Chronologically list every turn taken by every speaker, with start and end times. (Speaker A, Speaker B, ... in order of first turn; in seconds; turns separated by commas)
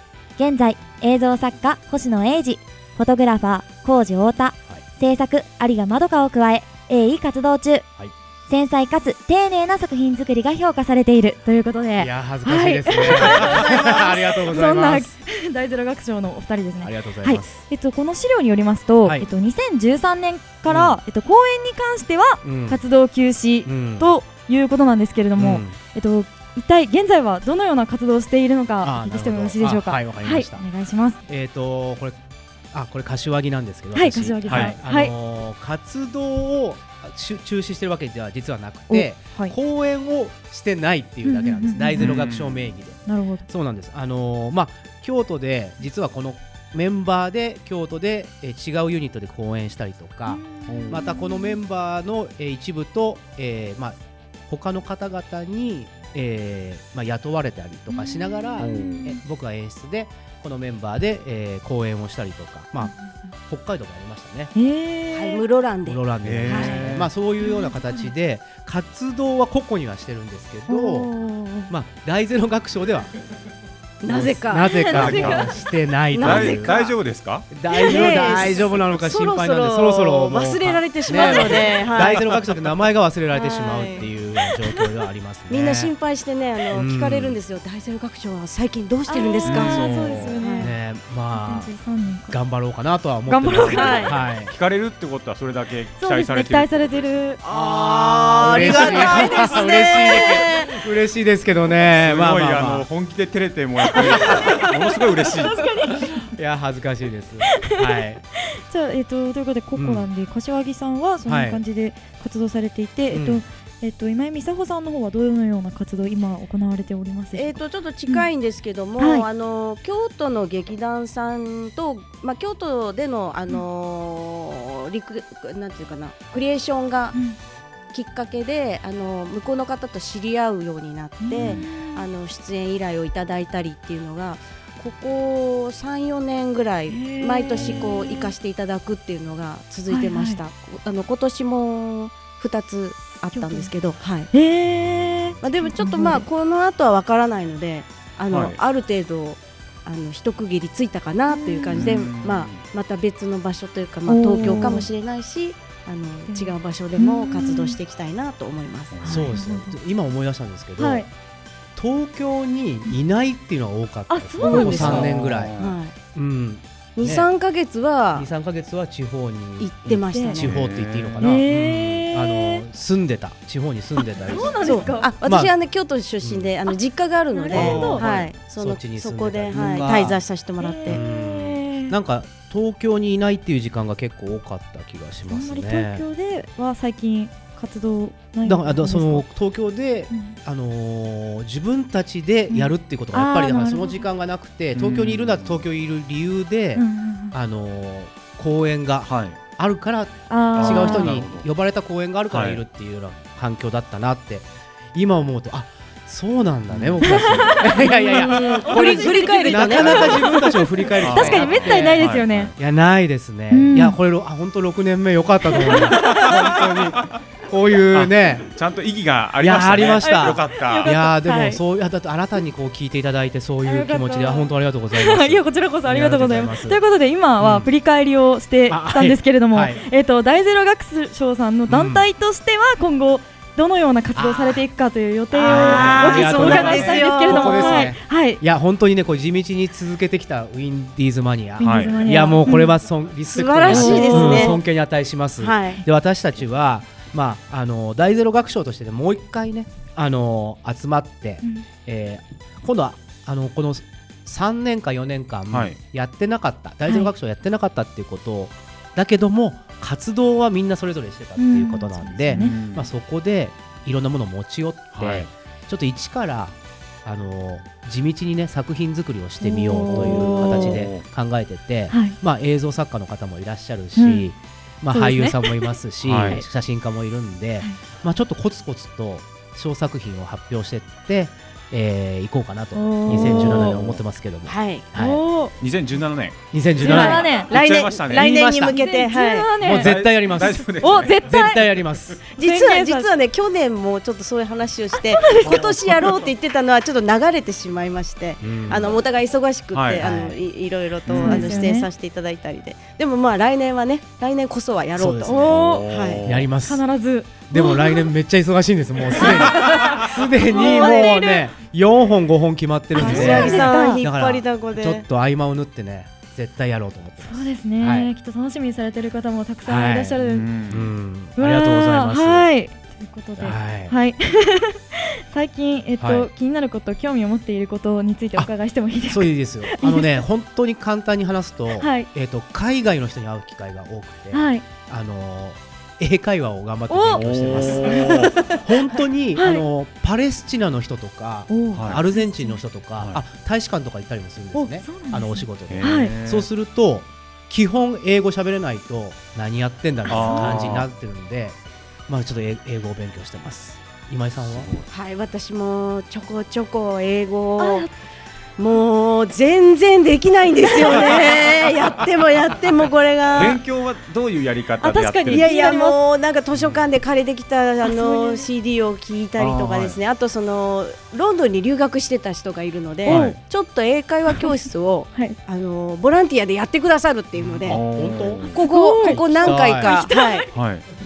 Speaker A: 0.4-7.9, Speaker A: 8.5-11.4, Speaker B: 11.4-31.2, Speaker C: 12.0-15.1, Speaker C: 16.8-17.6, Speaker C: 20.7-21.0, Speaker C: 22.4-22.8, Speaker C: 23.6-24.1, Speaker C: 25.4-25.8, Speaker C: 28.8-30.6, Speaker C: 31.3-32.1, Speaker C: 32.7-54.0, Speaker B: 33.9-35.1, Speaker D: 34.5-34.8, Speaker B: 38.9-39.5, Speaker B: 41.2-42.2, Speaker D: 42.0-42.7, Speaker B: 43.0-43.5, Speaker B: 50.3-51.6, Speaker D: 50.7-51.0, Speaker C: 54.5-63.0, Speaker B: 57.9-59.2, Speaker D: 58.6-59.1, Speaker C: 63.5-64.5, Speaker B: 64.5-65.4, Speaker E: 65.1-66.8, Speaker C: 65.9-71.1, Speaker D: 66.2-67.1, Speaker B: 66.5-66.7, Speaker B: 67.4-68.1, Speaker B: 70.7-71.7, Speaker C: 71.7-73.1, Speaker E: 74.0-75.2, Speaker C: 74.1-76.9, Speaker B: 74.7-75.3, Speaker D: 74.9-75.5, Speaker E: 76.1-76.9, Speaker D: 76.2-77.5, Speaker C: 77.5-85.9, Speaker E: 77.7-82.2, Speaker B: 81.2-81.6, Speaker E: 83.3-84.1, Speaker E: 85.5-90.7, Speaker C: 86.7-87.4, Speaker B: 89.1-90.7, Speaker D: 89.5-89.8, Speaker C: 89.6-91.7, Speaker B: 91.3-92.4, Speaker C: 92.3-94.5, Speaker B: 93.3-94.1, Speaker D: 93.5-97.0, Speaker E: 93.7-94.1, Speaker B: 96.0-97.4, Speaker E: 97.4-100.7, Speaker C: 97.5-102.9, Speaker B: 98.7-99.2, Speaker D: 101.9-105.7, Speaker B: 105.4-106.2, Speaker C: 106.2-108.2, Speaker B: 108.7-118.3, Speaker C: 109.8-110.0, Speaker C: 111.3-111.6, Speaker C: 113.1-113.4, Speaker E: 117.3-127.2, Speaker B: 119.0-119.2, Speaker E: 127.9-144.3, Speaker B: 131.2-132.1, Speaker B: 136.9-138.3, Speaker D: 137.6-137.8, Speaker B: 139.9-140.4, Speaker B: 143.3-143.7, Speaker B: 144.3-146.2, Speaker E: 145.4-159.3, Speaker D: 148.3-148.6, Speaker B: 151.3-151.9, Speaker D: 151.7-152.7, Speaker B: 154.1-154.8, Speaker B: 156.3-157.8, Speaker D: 158.9-159.2, Speaker C: 159.0-161.1, Speaker B: 159.1-159.7, Speaker B: 160.8-161.1, Speaker C: 161.8-167.3, Speaker B: 164.1-165.1, Speaker E: 164.5-166.0, Speaker D: 164.8-165.7, Speaker E: 167.0-168.3, Speaker C: 168.1-175.5, Speaker E: 169.6-170.5, Speaker B: 170.1-170.4, Speaker D: 170.4-171.2, Speaker B: 171.2-172.6, Speaker B: 174.3-175.1, Speaker E: 174.6-181.0, Speaker C: 176.2-176.5, Speaker B: 177.3-178.0, Speaker C: 177.5-180.2, Speaker D: 177.6-178.0, Speaker B: 180.6-181.9, Speaker C: 180.8-186.0, Speaker B: 185.3-189.2, Speaker C: 188.4-212.0, Speaker B: 190.1-190.4, Speaker B: 192.5-194.0, Speaker D: 194.7-195.6, Speaker B: 196.8-197.3, Speaker D: 199.0-199.4, Speaker B: 200.3-201.1, Speaker D: 200.6-201.5, Speaker D: 202.3-202.6, Speaker D: 206.7-207.0, Speaker B: 207.0-212.5, Speaker E: 207.9-210.4, Speaker D: 211.0-212.5, Speaker C: 212.6-218.4, Speaker B: 213.5-213.9, Speaker D: 216.0-217.1, Speaker D: 217.9-220.9, Speaker C: 219.4-226.8, Speaker B: 220.0-221.6, Speaker B: 223.6-238.4, Speaker C: 228.7-229.8, Speaker C: 231.7-232.1, Speaker C: 234.1-234.6, Speaker E: 235.3-237.9, Speaker C: 235.4-285.2, Speaker B: 241.6-242.7, Speaker D: 241.6-242.2, Speaker E: 243.3-244.6, Speaker D: 243.7-244.0, Speaker B: 243.7-244.6, Speaker E: 245.4-245.8, Speaker D: 255.5-255.8, Speaker B: 256.9-257.1, Speaker B: 261.4-262.5, Speaker D: 262.3-262.9, Speaker D: 264.9-265.3, Speaker B: 269.4-270.8, Speaker D: 269.9-271.0, Speaker B: 271.9-272.1, Speaker B: 273.9-274.3, Speaker B: 274.9-275.7, Speaker D: 276.0-276.4, Speaker B: 282.7-283.8, Speaker D: 283.1-283.7, Speaker E: 284.4-284.9, Speaker B: 284.9-285.5, Speaker D: 285.6-288.5, Speaker C: 286.5-287.4, Speaker B: 286.8-287.5, Speaker E: 286.9-289.5, Speaker C: 288.1-288.8, Speaker B: 288.6-289.9, Speaker D: 289.6-291.5, Speaker C: 289.6-292.2, Speaker B: 290.8-291.6, Speaker E: 292.3-306.3, Speaker B: 292.4-293.1, Speaker B: 294.9-295.7, Speaker D: 295.4-296.2, Speaker C: 298.4-298.9, Speaker D: 299.7-300.1, Speaker C: 300.0-300.4, Speaker D: 301.1-301.5, Speaker B: 301.2-301.9, Speaker C: 304.9-305.5, Speaker B: 305.2-305.9, Speaker D: 305.4-306.5, Speaker C: 306.2-306.8, Speaker B: 306.6-308.1, Speaker C: 307.5-318.1, Speaker B: 310.5-311.3, Speaker E: 310.5-311.4, Speaker B: 312.9-314.0, Speaker E: 312.9-315.1, Speaker B: 317.2-320.5, Speaker C: 319.6-322.5, Speaker D: 320.2-320.9, Speaker B: 321.4-330.2, Speaker C: 323.4-323.9, Speaker C: 326.0-326.3, Speaker C: 329.1-354.7, Speaker B: 331.8-332.1, Speaker B: 334.3-334.6, Speaker B: 336.9-339.6, Speaker D: 337.1-338.4, Speaker B: 341.5-342.6, Speaker D: 341.7-342.0, Speaker D: 343.0-343.2, Speaker B: 344.5-346.1, Speaker D: 345.7-346.5, Speaker D: 350.1-350.9, Speaker B: 350.1-350.6, Speaker D: 354.4-354.9, Speaker E: 354.9-357.9, Speaker B: 357.6-357.9, Speaker E: 358.6-363.6, Speaker D: 360.8-362.0, Speaker D: 363.3-365.6, Speaker B: 364.8-366.0, Speaker E: 365.3-377.8, Speaker D: 366.5-366.9, Speaker B: 367.8-368.4, Speaker D: 369.4-370.0, Speaker B: 373.1-373.4, Speaker D: 373.1-373.4, Speaker D: 377.4-378.5, Speaker C: 377.7-379.9, Speaker E: 378.5-380.4, Speaker B: 378.6-379.2, Speaker B: 379.8-380.4, Speaker D: 380.5-380.8